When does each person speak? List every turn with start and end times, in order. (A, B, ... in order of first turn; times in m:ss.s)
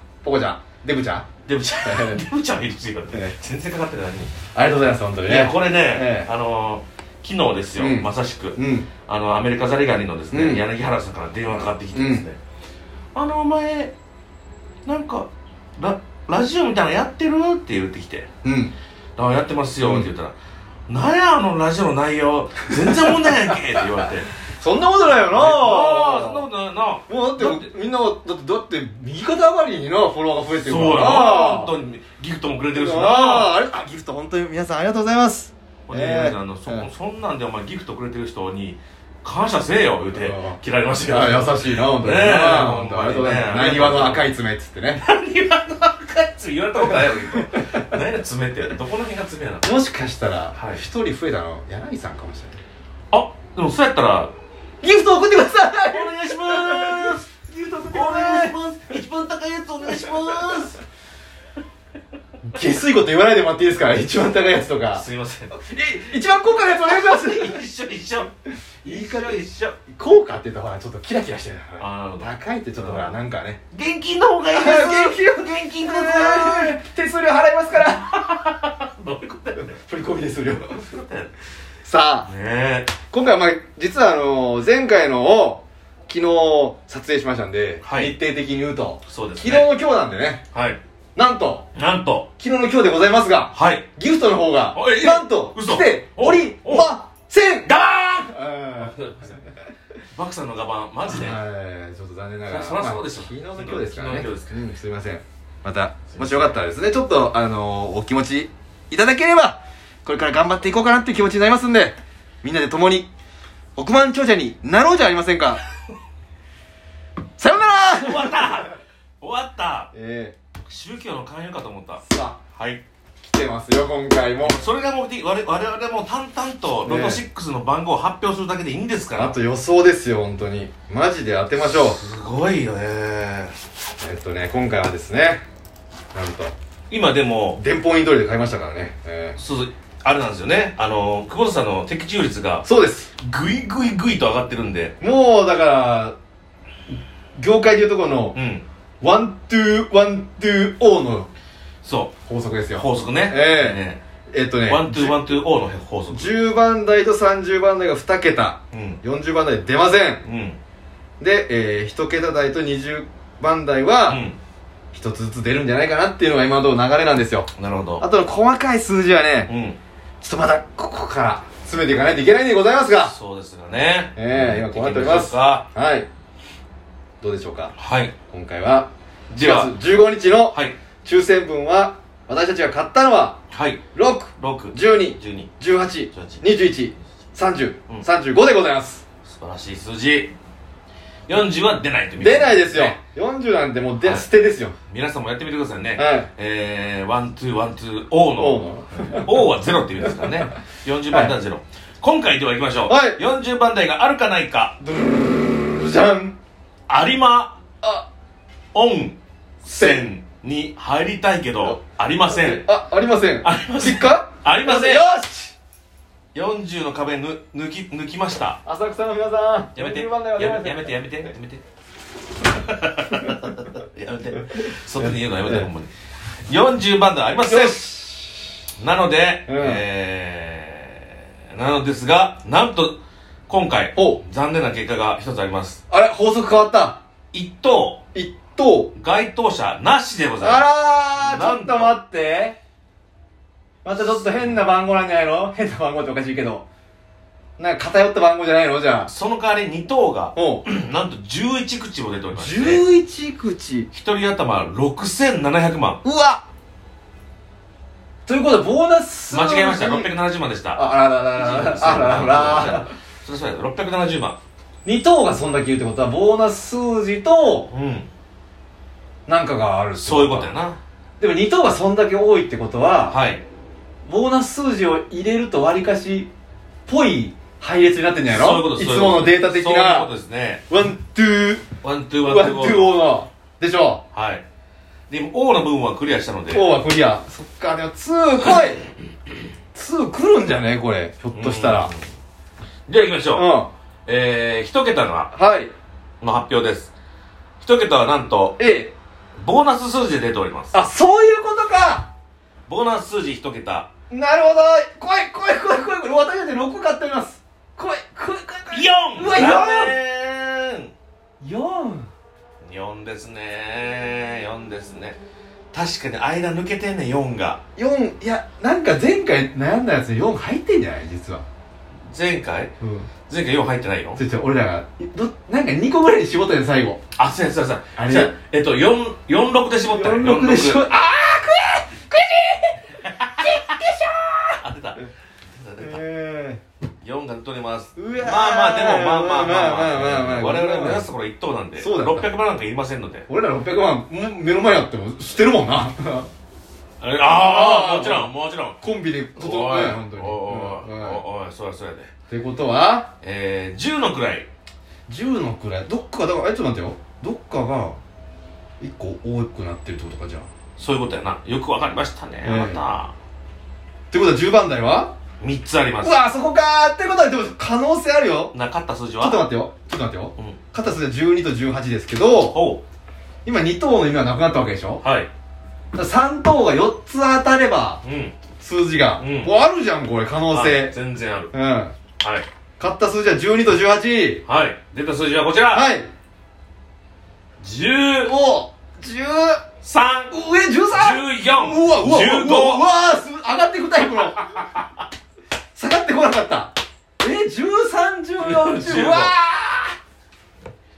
0:00.2-0:01.3 A
0:01.4-0:04.3 B
0:01.8-0:02.2 A
0:04.5-0:06.3 A
0:05.2-0:12.4 B
0:07.8-0:08.9 A
0:10.3-0:10.6 A
0:11.9-0:12.3 A
0:13.1-0:13.9 B
0:14.8-0:18.3 B
0:18.4-0:18.7 A
0:19.2-0:20.4 B
0:20.9-0:24.3 B
0:24.5-0:26.5 A
0:25.3-0:27.7 B
0:27.1-0:31.7 A
0:30.6-0:33.6 B
0:32.7-0:36.9 A
0:35.9-0:44.3 B
0:40.1-0:45.0 A
0:45.0-0:49.7 B
0:47.0-0:47.8 A
0:49.6-0:52.6 A
0:50.5-0:50.8 B
0:53.1-0:54.3 B
0:54.8-0:58.5 A
0:55.9-0:57.2 B
0:57.9-1:00.8 B
1:02.4-1:07.6 A
1:04.9-1:05.5 B
1:06.9-1:08.3 B
1:08.8-1:13.6 A
1:08.8-1:09.8 B
1:11.8-1:13.2 B
1:13.7-1:16.8 B
1:14.5-1:18.1 A
1:18.0-1:19.8 B
1:19.6-1:20.8 A
1:20.6-1:21.3 B
1:21.8-1:22.3 A
1:22.3-1:23.0 B
1:23.0-1:30.4 A
1:27.8-1:28.1 B
1:29.1-1:29.7 B
1:30.5-1:30.8 B
1:31.2-1:31.6 A
1:31.7-1:32.3 B
1:32.4-1:39.0 A
1:33.5-1:33.9 B
1:34.7-1:36.9 B
1:37.7-1:39.4 B
1:40.1-1:41.4 B
1:41.0-1:53.1 A
1:42.5-1:44.6 B
1:46.1-1:46.5 B
1:53.8-1:55.6 A
1:57.4-1:58.6 A
1:58.0-1:59.9 B
1:59.9-2:00.3 A
2:00.6-2:02.0 B
2:02.0-2:02.4 A
2:02.5-2:02.8 B
2:03.2-2:04.6 A
2:04.4-2:09.4 B
2:06.8-2:07.2 A
2:09.1-2:12.0 A
2:11.6-2:13.5 B
2:14.0-2:15.4 A
2:16.1-2:16.5 A
2:16.9-2:17.6 B
2:17.5-2:19.4 A
2:19.4-2:22.6 B
2:22.6-2:23.1 A
2:23.2-2:25.0 B
2:25.0-2:26.1 A
2:27.4-2:28.4 A
2:28.3-2:28.6 B
2:29.0-2:31.3 A
2:31.8-2:32.2 B
2:32.3-2:35.3 A
2:32.7-2:34.0 B
2:34.6-2:36.3 B
2:36.1-2:40.2 A
2:38.7-2:39.0 B
2:40.2-2:40.6 B
2:41.2-2:44.2 A
2:44.1-2:44.4 B
2:44.9-2:49.5 A
2:47.6-2:48.0 B
2:49.5-2:49.8 B
2:50.2-2:53.1 A
2:53.0-2:55.6 B
2:54.2-2:56.1 A
2:57.2-2:57.7 A
2:57.8-2:58.2 B
2:58.3-3:03.4 A
2:59.3-2:59.8 B
3:00.5-3:00.8 B
3:03.5-3:03.8 B
3:03.9-3:09.0 A
3:04.4-3:05.5 B
3:06.1-3:06.4 B
3:09.2-3:10.3 B
3:11.3-3:13.0 B
3:12.2-3:14.8 A
3:14.0-3:14.3 B
3:14.9-3:24.8 B
3:16.0-3:16.3 A
3:18.4-3:19.3 A
3:22.9-3:23.2 A
3:24.8-3:26.4 A
3:26.9-3:27.6 B
3:27.8-3:28.1 A
3:28.7-3:32.7 B
3:29.7-3:30.1 A
3:32.3-3:35.5 A
3:33.4-3:35.1 B
3:36.3-3:38.6 B
3:38.6-3:40.9 A
3:39.8-3:41.6 B
3:42.4-3:45.9 B
3:45.0-3:45.7 A
3:46.5-3:47.8 B
3:47.3-3:48.6 A
3:48.8-3:55.8 B
3:49.5-3:49.8 A
3:53.9-3:54.2 A
3:55.9-3:57.0 A
3:57.3-3:58.0 B
3:58.1-3:58.9 A
3:58.9-4:02.0 B
4:00.4-4:02.6 A
4:03.8-4:06.6 A
4:04.0-4:04.6 B
4:07.6-4:09.1 A
4:09.1-4:12.8 B
4:10.3-4:10.6 A
4:12.3-4:13.9 A
4:13.9-4:16.0 B
4:16.0-4:16.4 A
4:18.2-4:20.1 A
4:19.3-4:24.4 B
4:20.7-4:22.9 A
4:24.8-4:27.7 A
4:27.7-4:28.1 B
4:29.3-4:30.5 A
4:30.0-4:30.8 B
4:31.2-4:33.2 A
4:33.1-4:33.4 B
4:34.1-4:36.3 A
4:36.9-4:40.1 A
4:38.3-4:40.6 B
4:40.7-4:41.7 A
4:41.8-4:43.0 B
4:42.2-4:44.0 A
4:44.1-4:44.4 B
4:45.1-4:46.7 B
4:46.5-4:48.8 A
4:49.7-4:51.9 A
4:51.3-4:52.0 B
4:52.9-4:53.6 B
4:53.3-4:53.7 A
4:54.1-4:55.3 B
4:55.3-4:55.7 A
4:56.2-4:56.9 B
4:57.6-4:58.6 B
4:58.6-4:58.9 A
4:59.4-5:00.8 B
5:00.7-5:02.1 A
5:02.7-5:03.9 B
5:04.1-5:09.9 A
5:08.7-5:10.9 B
5:11.4-5:12.1 A
5:12.6-5:15.2 B
5:15.7-5:17.6 B
5:17.8-5:21.4 A
5:22.1-5:22.7 B
5:22.8-5:23.1 A
5:23.3-5:24.2 B
5:24.1-5:27.0 A
5:27.2-5:30.9 B
5:28.0-5:28.3 A
5:29.9-5:34.6 A
5:33.0-5:33.8 B
5:34.6-5:36.0 B
5:35.8-5:36.6 A
5:37.0-5:43.3 B
5:38.0-5:41.1 A
5:41.8-5:42.3 A
5:43.3-5:46.3 A
5:47.0-5:48.8 B
5:47.2-5:51.2 A
5:49.4-5:52.1 B
5:52.3-5:53.1 A
5:53.2-5:54.5 B
5:55.1-5:58.0 A
5:58.8-6:00.5 A
6:00.8-6:03.1 B
6:02.4-6:02.8 A
6:04.1-6:05.1 A
6:05.4-6:06.2 B
6:06.0-6:08.5 A
6:08.5-6:09.5 B
6:09.2-6:12.6 A
6:12.4-6:12.8 B
6:13.4-6:15.0 A
6:15.0-6:15.3 B
6:15.9-6:18.0 A
6:18.0-6:18.4 B
6:18.6-6:20.9 A
6:19.2-6:19.5 B
6:20.5-6:21.5 B
6:21.5-6:21.9 A
6:22.2-6:22.5 B
6:22.8-6:24.4 A
6:24.4-6:25.9 B
6:25.7-6:26.1 A
6:27.6-6:28.4 B
6:28.2-6:29.6 A
6:29.8-6:30.4 B
6:30.3-6:34.7 A
6:30.9-6:32.8 B
6:35.7-6:40.0 A
6:38.4-6:39.3 B